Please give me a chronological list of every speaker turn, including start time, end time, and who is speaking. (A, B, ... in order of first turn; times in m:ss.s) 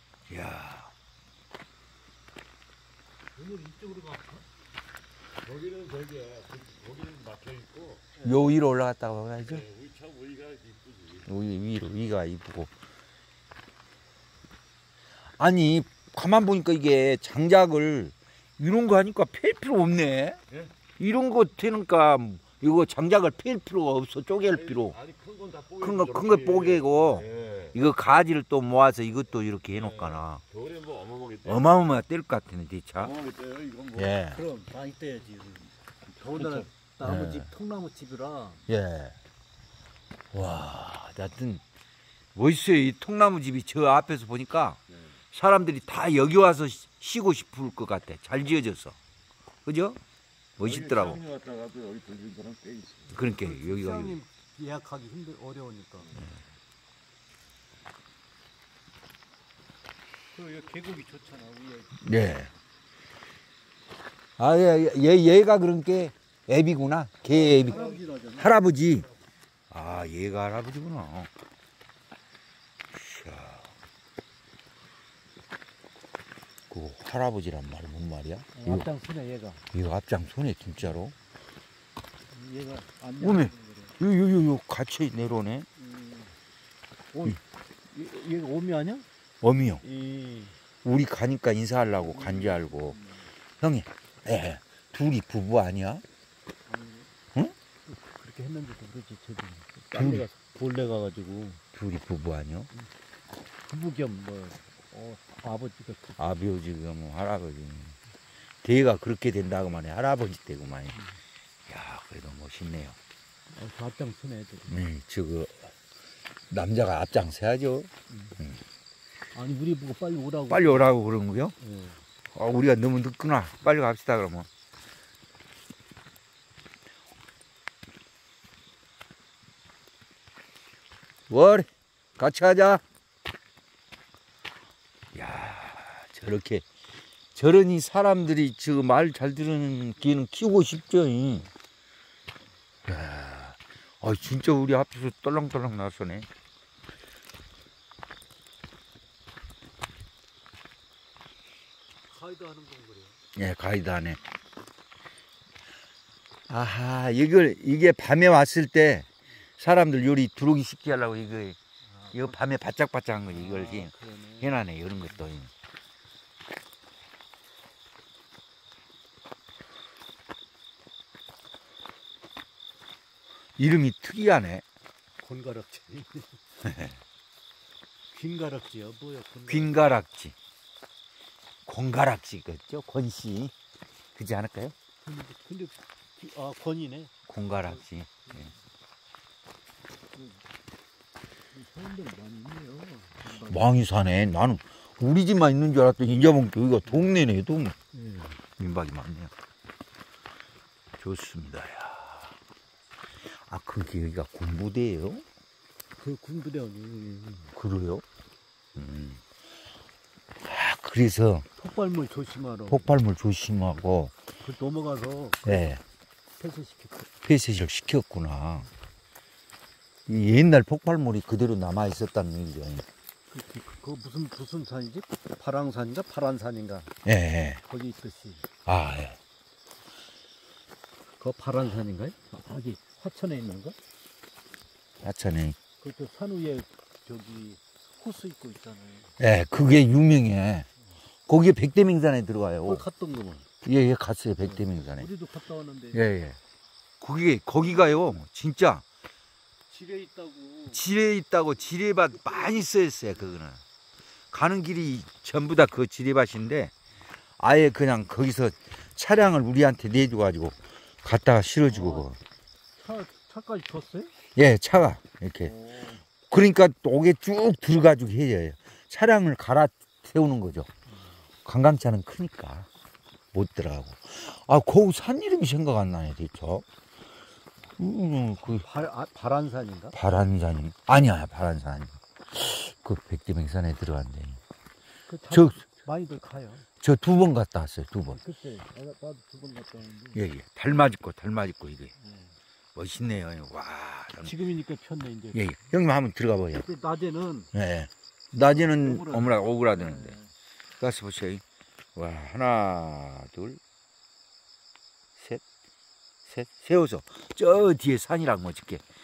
0:00.3-0:00.9 A
0:03.4-0:04.4 B
0:05.4-0:08.1 C
0:08.2-0:08.5 B
0:08.2-0:09.7 A
0:09.4-0:11.3 C
0:11.3-0:12.8 A
0:15.4-0:20.4 A
0:21.0-0:25.0 A
0:24.5-0:27.8 C
0:25.8-0:30.4 A
0:29.7-0:31.9 C
0:31.4-0:33.1 A
0:33.0-0:34.2 C
0:34.0-0:34.4 A
0:34.3-0:38.6 B
0:36.2-0:36.7 C
0:37.0-0:37.5 A
0:38.7-0:39.2 A
0:40.3-0:41.6 A
0:42.4-0:44.8 A
0:45.3-0:49.0 A
0:49.7-0:50.0 A
0:50.6-0:51.2 A
0:50.6-0:53.2 C
0:53.1-0:54.2 A
0:53.4-0:56.2 B
1:00.3-1:02.5 B
1:02.0-1:02.5 A
1:04.4-1:09.1 A
1:07.3-1:08.5 B
1:09.7-1:11.3 A
1:12.9-1:13.7 A
1:16.7-1:18.9 A
1:18.6-1:19.6 B
1:19.7-1:21.2 A
1:22.3-1:24.0 B
1:23.2-1:25.7 A
1:25.8-1:26.4 B
1:27.1-1:29.1 B
1:29.4-1:29.8 A
1:29.7-1:30.6 B
1:30.8-1:33.0 A
1:32.1-1:33.3 B
1:33.6-1:36.0 A
1:36.7-1:37.1 B
1:37.8-1:41.6 B
1:39.9-1:40.3 A
1:41.7-1:42.7 A
1:43.6-1:46.2 B
1:46.2-1:48.0 A
1:48.6-1:51.0 A
1:51.7-1:53.0 A
1:53.5-1:54.8 B
1:54.7-1:55.7 A
1:56.5-1:58.6 A
1:58.1-1:58.4 B
1:59.3-2:00.9 B
2:00.5-2:01.5 A
2:01.6-2:02.0 B
2:02.3-2:04.5 A
2:11.3-2:12.8 A
2:15.1-2:16.6 A
2:17.4-2:21.5 A
2:22.8-2:26.3 A
2:32.1-2:33.2 B
2:33.4-2:34.2 A
2:36.5-2:39.1 A
2:39.6-2:41.6 A
2:41.9-2:42.4 B
2:42.1-2:45.5 A
2:43.3-2:44.6 B
2:53.6-2:54.6 A
2:55.2-2:56.4 B
2:56.6-2:57.0 A
2:58.1-2:59.8 B
2:59.5-3:00.4 A
3:01.7-3:03.5 A
3:04.2-3:04.8 A
3:05.0-3:07.1 B
3:07.3-3:08.5 A
3:07.6-3:08.6 B
3:10.1-3:10.4 B
3:11.5-3:13.8 B
3:13.5-3:17.8 A
3:17.9-3:18.4 B
3:18.6-3:19.3 A
3:21.0-3:22.4 A
3:23.5-3:25.2 A
3:26.0-3:27.5 B
3:27.5-3:28.0 A
3:28.8-3:29.2 A
3:30.4-3:31.5 A
3:31.6-3:32.9 B
3:32.7-3:34.1 A
3:34.4-3:35.8 B
3:35.4-3:35.8 A
3:36.4-3:37.1 B
3:37.2-3:38.7 A
3:40.1-3:42.9 A
3:43.3-3:46.9 B
3:47.0-3:47.6 A
3:47.6-3:48.5 B
3:48.7-3:49.2 A
3:51.2-3:53.8 B
3:55.0-3:55.6 A
3:55.8-3:59.1 B
3:59.2-4:00.7 A
4:01.3-4:02.8 A
4:02.7-4:03.5 B
4:03.6-4:05.1 A
4:04.4-4:06.0 B
4:05.9-4:06.4 A
4:07.0-4:08.8 A
4:09.7-4:10.8 B
4:10.7-4:13.6 A
4:12.3-4:12.6 B
4:14.3-4:16.7 A
4:17.4-4:22.2 A
4:21.7-4:22.1 B
4:22.8-4:24.1 B
4:24.4-4:25.5 A
4:25.4-4:26.0 B
4:26.3-4:30.7 A
4:31.4-4:32.7 A
4:33.3-4:36.6 A
4:37.8-4:38.6 A
4:38.5-4:40.0 B
4:39.9-4:44.4 A
4:45.1-4:46.7 B
4:45.3-4:45.6 A
4:46.8-4:48.2 A
4:48.1-4:50.2 B
4:50.2-4:51.9 A
4:52.0-4:52.4 B
4:52.8-4:54.3 A
4:54.2-4:55.4 B
4:55.3-4:56.6 A
4:56.6-4:57.5 B
4:57.5-5:00.2 A
4:58.4-5:00.3 B
5:00.8-5:01.4 A
5:02.0-5:03.6 A
5:05.2-5:05.4 A
5:06.2-5:08.8 A